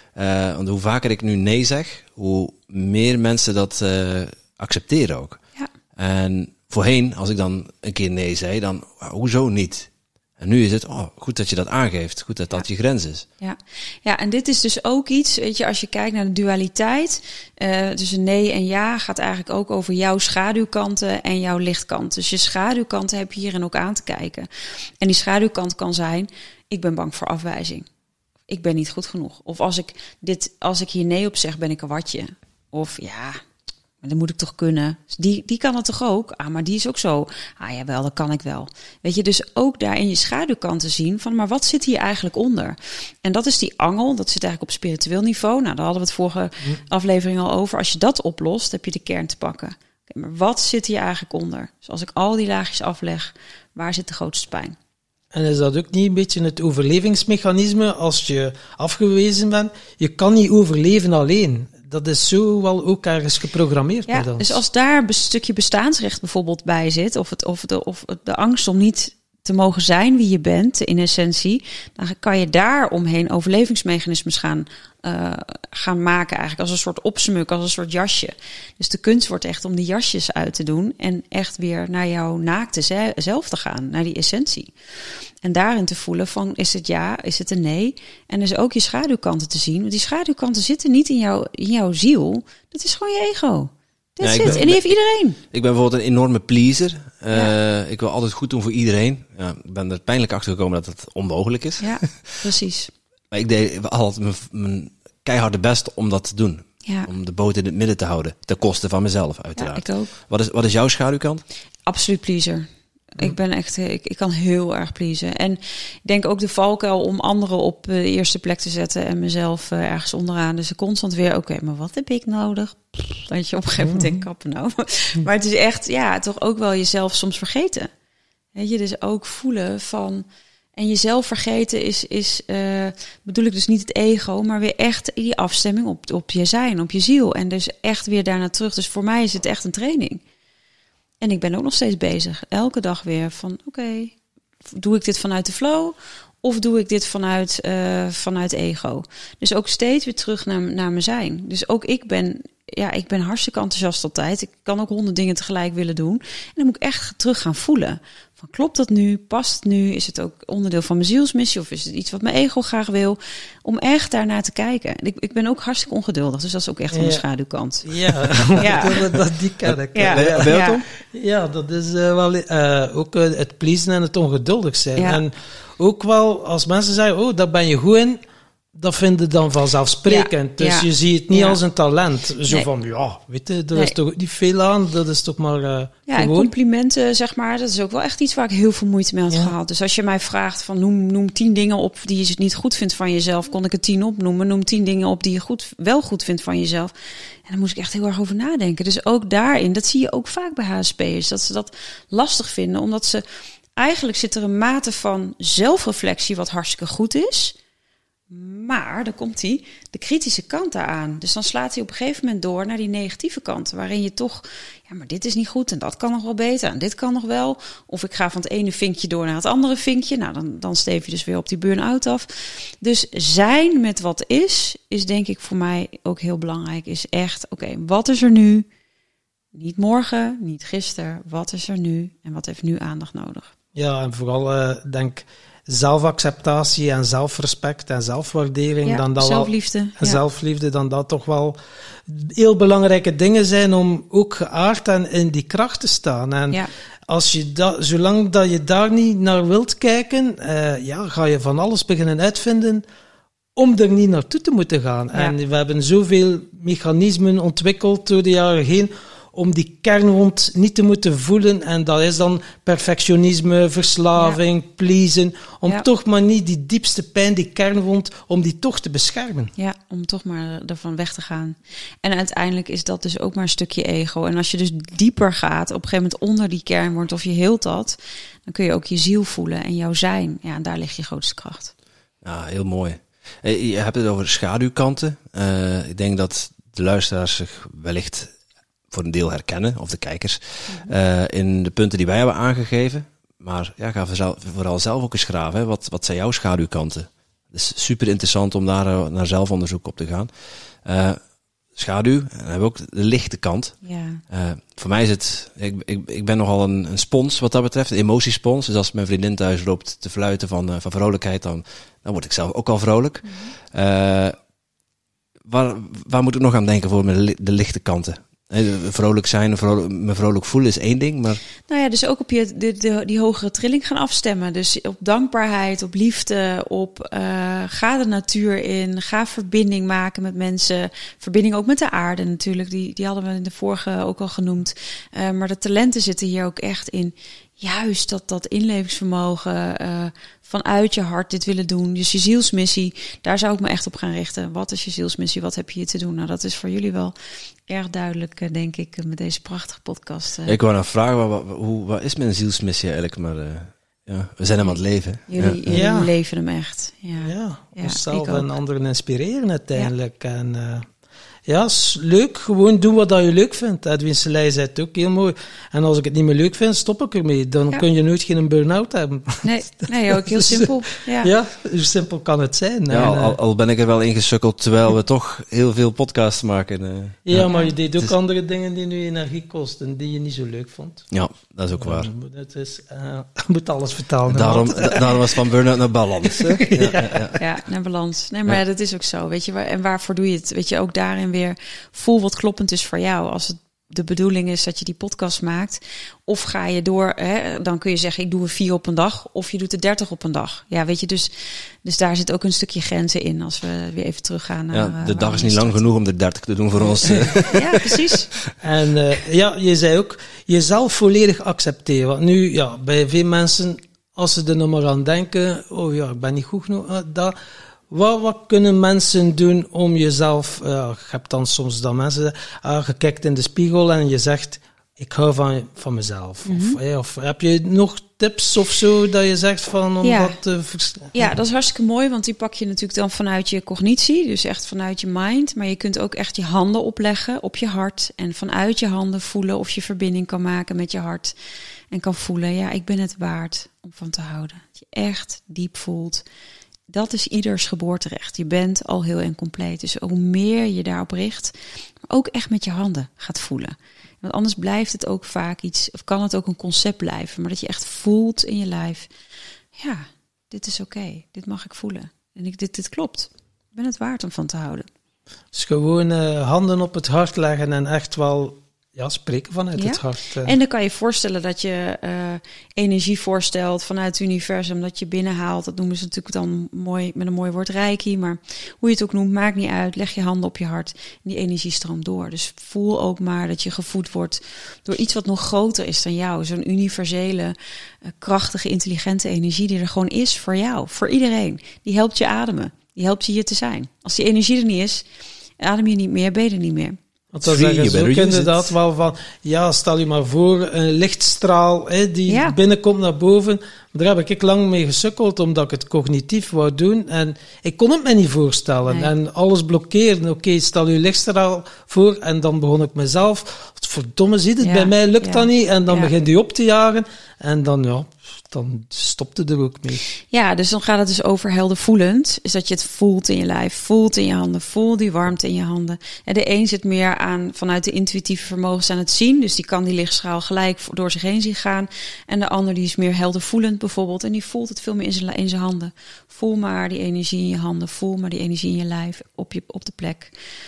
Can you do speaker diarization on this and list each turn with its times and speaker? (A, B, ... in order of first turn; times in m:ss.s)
0:00.2-0:05.4 A
0:06.0-0:13.2 A
0:13.4-0:24.5 B
0:25.0-0:27.9 B
0:28.5-0:33.4 B
0:34.0-0:54.7 B
0:55.3-1:04.6 C
1:04.1-1:24.7 B
1:25.4-1:35.4 B
1:34.2-1:42.4 A
1:41.8-1:42.9 B
1:43.3-1:51.4 A
1:49.6-1:50.1 B
1:51.8-2:07.9 B
2:03.8-2:04.2 C
2:08.5-2:20.2 B
2:21.2-2:24.1 B
2:24.7-2:47.9 B
2:46.9-2:47.2 C
2:47.8-2:58.2 C
2:48.6-2:49.1 B
2:49.6-2:50.8 A
2:49.9-2:50.8 B
2:54.9-2:55.2 B
2:58.7-3:06.5 C
3:00.0-3:01.6 B
3:06.1-3:23.2 B
3:23.8-3:27.6 B
3:28.3-3:48.6 B
3:49.5-3:53.5 B
3:53.7-4:01.6 C
3:58.8-4:00.2 B
4:02.1-4:12.8 C
4:13.6-4:29.5 C
4:24.1-4:24.4 B
4:29.6-4:41.7 B
4:42.2-4:48.3 A
4:48.9-5:00.3 A
4:50.7-4:50.9 B
5:00.8-5:01.2 A
5:01.7-5:03.8 A
5:03.8-5:04.2 B
5:04.3-5:14.4 A
5:13.2-5:13.5 B
5:15.5-5:21.4 A
5:21.7-5:47.1 B
5:47.7-5:50.6 B
5:50.4-5:55.8 A
5:55.3-5:58.5 B
5:55.7-5:56.1 C
5:57.2-6:00.8 C
6:01.4-6:13.4 C
6:09.4-6:11.3 B
6:12.9-6:18.1 A
6:17.2-6:21.1 C
6:17.4-6:17.7 B
6:21.1-6:22.1 A
6:21.7-6:25.5 C
6:24.3-6:27.4 A
6:26.2-6:27.3 C
6:27.4-6:45.8 B
6:44.7-6:47.9 A
6:47.0-6:47.4 C
6:47.5-6:48.3 B
6:48.6-6:57.3 C
6:57.9-7:11.3 C
7:06.4-7:06.8 B
7:10.0-7:10.4 B
7:11.1-7:21.3 B
7:21.9-7:26.2 B
7:26.9-7:31.6 B
7:32.1-7:39.1 B
7:39.7-7:44.9 B
7:45.5-7:50.5 C
7:49.8-8:15.0 B
8:15.6-8:17.0 B
8:17.3-8:40.0 C
8:17.4-8:18.7 A
8:22.3-8:22.6 B
8:28.8-8:29.1 B
8:34.6-8:36.1 B
8:40.3-9:00.3 B